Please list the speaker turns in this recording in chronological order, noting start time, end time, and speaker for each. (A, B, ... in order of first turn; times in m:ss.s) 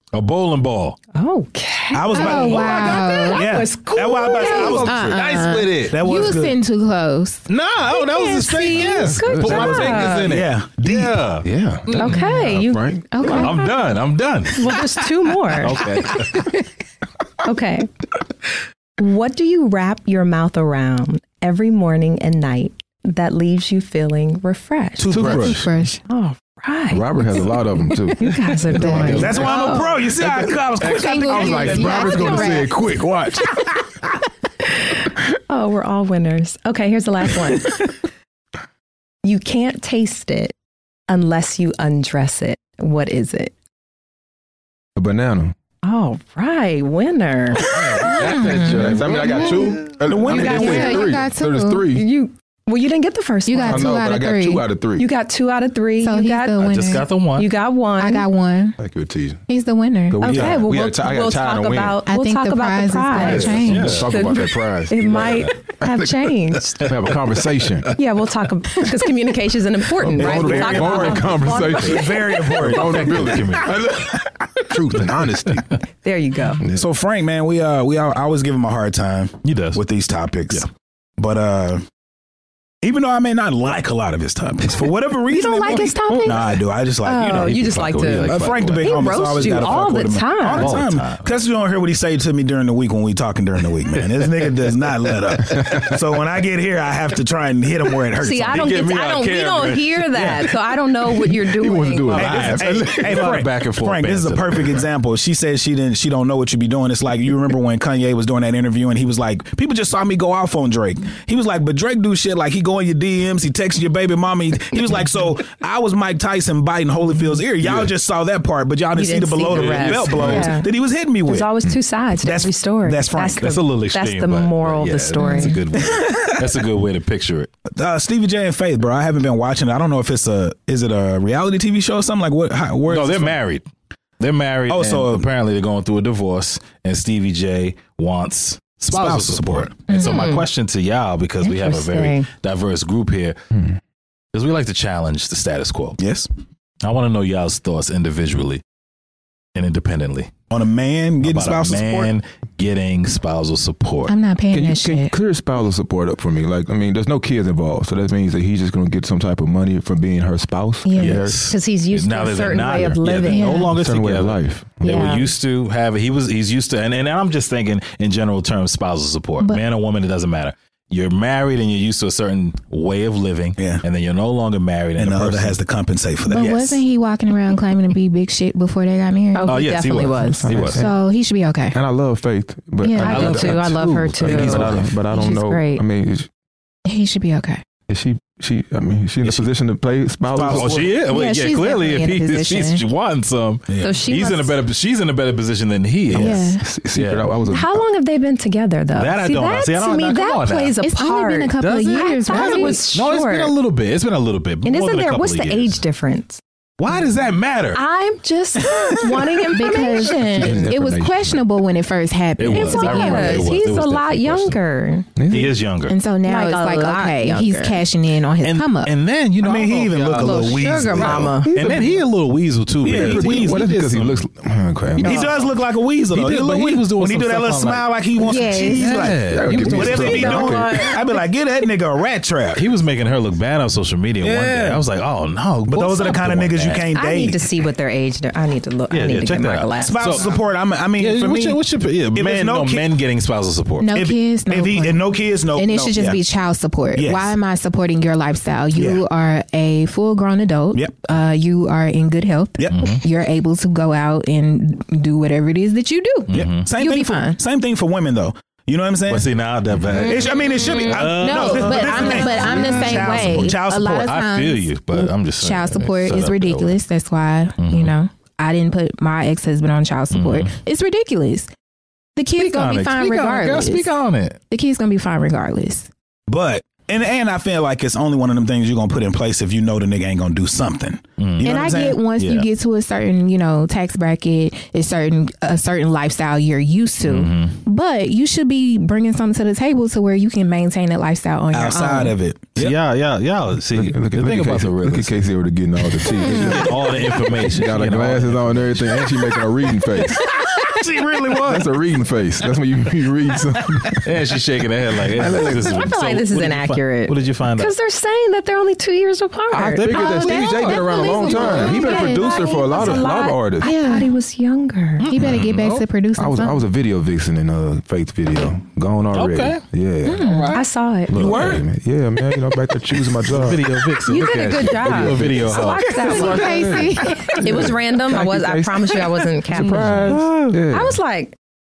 0:00.1-0:01.0 A
0:01.1-0:04.9 B
0:01.9-0:06.6 C
0:02.1-0:03.4 D
0:02.5-0:03.3 A
0:04.4-0:07.4 D
0:04.5-0:06.0 A
0:07.5-0:11.4 A
0:07.9-0:10.3 B
0:09.2-0:09.7 E
0:09.4-0:11.2 C
0:11.4-0:13.1 E
0:11.9-0:13.8 B
0:12.0-0:12.3 A
0:13.1-0:13.6 D
0:13.3-0:14.7 A
0:14.5-0:16.1 B
0:15.6-0:16.5 A
0:17.4-0:17.9 B
0:19.0-0:25.1 B
0:25.0-0:25.7 C
0:25.1-0:25.6 E
0:25.2-0:26.0 D
0:26.1-0:27.5 B
0:26.9-0:33.6 E
0:28.1-0:30.0 B
0:28.7-0:29.4 D
0:29.0-0:29.5 A
0:29.0-0:32.6 C
0:30.8-0:32.7 D
0:34.8-0:37.9 B
0:39.2-0:40.5 B
0:41.1-0:43.5 B
0:45.0-0:45.5 E
0:45.8-0:47.6 B
0:47.6-0:49.2 A
0:48.0-0:52.0 E
0:48.0-0:49.8 D
0:50.1-0:51.0 C
0:50.3-0:51.2 B
0:50.3-0:51.9 D
0:51.9-0:54.0 B
0:53.5-0:54.6 D
0:53.6-0:55.1 E
0:55.0-0:58.2 B
0:56.0-0:57.0 D
0:56.6-0:57.5 A
0:58.0-0:58.8 D
0:58.8-0:59.4 E
0:59.5-1:00.2 D
1:00.1-1:02.0 E
1:00.2-1:06.9 B
1:00.2-1:00.6 C
1:02.0-1:04.0 D
1:03.2-1:06.1 E
1:03.2-1:04.1 A
1:06.8-1:07.9 E
1:08.0-1:13.0 B
1:10.1-1:15.7 E
1:10.2-1:13.4 C
1:12.6-1:13.9 A
1:16.0-1:16.6 B
1:16.7-1:20.6 C
1:19.4-1:19.8 A
1:21.2-1:21.8 C
1:22.8-1:27.6 C
1:25.3-1:30.8 B
1:27.3-1:29.8 A
1:28.2-1:38.7 C
1:30.5-1:31.4 A
1:35.4-1:36.0 E
1:38.2-1:42.4 B
1:38.5-1:40.5 A
1:41.4-1:43.4 E
1:42.1-1:44.9 A
1:42.1-2:01.5 C
1:57.6-1:57.9 A
1:58.9-2:00.7 B
1:59.5-2:00.5 A
2:00.2-2:00.4 E
2:01.3-2:05.6 B
2:02.2-2:03.5 C
2:03.4-2:07.5 A
2:05.2-2:05.6 D
2:05.8-2:06.4 C
2:07.8-2:13.4 C
2:12.9-2:13.6 A
2:14.2-2:23.4 A
2:14.7-2:15.2 C
2:18.9-2:19.8 C
2:19.9-2:20.4 B
2:19.9-2:20.3 D
2:21.4-2:22.3 B
2:23.5-2:23.8 E
2:24.3-2:26.0 A
2:26.0-2:26.3 C
2:26.8-2:28.6 A
2:29.5-2:30.3 A
2:30.5-2:32.1 C
2:31.2-2:34.1 A
2:34.1-2:35.1 D
2:34.5-2:41.5 E
2:40.8-2:41.2 D
2:41.0-2:55.6 A
2:41.5-2:43.5 B
2:43.3-2:43.7 D
2:43.7-2:45.1 E
2:44.8-2:45.3 B
2:55.0-2:56.5 C
2:56.3-3:00.1 D
2:56.3-2:56.8 A
2:59.3-3:00.5 B
2:59.5-3:00.8 A
3:00.4-3:00.9 E
3:00.7-3:01.8 D
3:01.7-3:06.3 E
3:02.8-3:03.4 D
3:03.0-3:04.9 A
3:03.0-3:05.8 B
3:06.8-3:07.6 D
3:07.9-3:10.9 E
3:10.3-3:11.0 C
3:10.4-3:17.3 A
3:11.0-3:12.8 D
3:13.7-3:13.9 C
3:13.8-3:14.6 B
3:16.1-3:17.8 E
3:16.1-3:16.6 D
3:17.5-3:23.5 B
3:18.9-3:20.8 A
3:20.8-3:22.9 D
3:21.6-3:25.8 A
3:24.6-3:26.4 B
3:26.8-3:27.8 A
3:27.7-3:30.7 B
3:29.5-3:33.5 D
3:30.3-3:31.4 E
3:32.4-3:34.6 A
3:32.5-3:35.1 B
3:35.2-3:35.6 E
3:35.3-3:36.0 A
3:35.9-3:38.9 D
3:36.2-3:37.8 B
3:38.4-3:44.2 A
3:39.4-3:41.4 C
3:40.2-3:41.5 B
3:41.5-3:42.0 E
3:42.8-3:43.6 C
3:42.8-3:45.3 E
3:45.0-3:45.5 A
3:45.0-3:52.6 C
3:46.1-3:47.9 A
3:48.2-3:49.0 D
3:48.7-3:50.3 A
3:49.2-3:50.8 E
3:49.5-3:51.0 B
3:52.5-3:56.9 A
3:54.2-3:54.8 E
3:55.7-3:57.4 C
3:56.9-4:00.3 B
3:58.9-4:00.4 A
3:59.8-4:01.6 C
4:01.0-4:03.9 A
4:02.1-4:02.9 C
4:03.8-4:05.0 D
4:03.9-4:06.2 C
4:05.6-4:17.4 D
4:06.9-4:07.4 C
4:08.8-4:09.0 C
4:12.7-4:13.0 A
4:16.3-4:16.7 A
4:16.3-4:19.3 C
4:19.1-4:26.8 A
4:19.9-4:24.1 C
4:20.0-4:31.5 D
4:27.6-4:27.9 A
4:30.1-4:30.5 A
4:32.2-4:33.9 D
4:32.4-4:34.4 A
4:34.5-4:35.9 D
4:36.3-4:42.0 C
4:41.2-4:41.5 A
4:41.4-4:52.2 D
4:42.1-4:42.5 A
4:47.0-4:47.6 A
4:51.5-4:52.8 C
4:52.6-4:55.2 A
4:53.7-5:00.2 E
4:55.9-4:59.0 A
4:56.2-4:56.7 D
5:00.2-5:01.7 C
5:01.4-5:04.1 E
5:04.0-5:07.7 A
5:05.1-5:05.9 E
5:05.6-5:15.1 B
5:09.5-5:13.7 E
5:09.7-5:10.7 A
5:09.9-5:14.1 D
5:15.0-5:15.8 A
5:15.1-5:16.6 D
5:15.2-5:15.5 E
5:16.2-5:20.5 E
5:19.1-5:20.6 A
5:20.0-5:20.6 D
5:20.5-5:21.6 B
5:21.1-5:24.0 E
5:21.2-5:21.5 C
5:21.2-5:21.5 A
5:23.1-5:26.8 A
5:24.0-5:31.4 B
5:24.6-5:31.0 E
5:26.0-5:27.4 D
5:29.5-5:30.6 A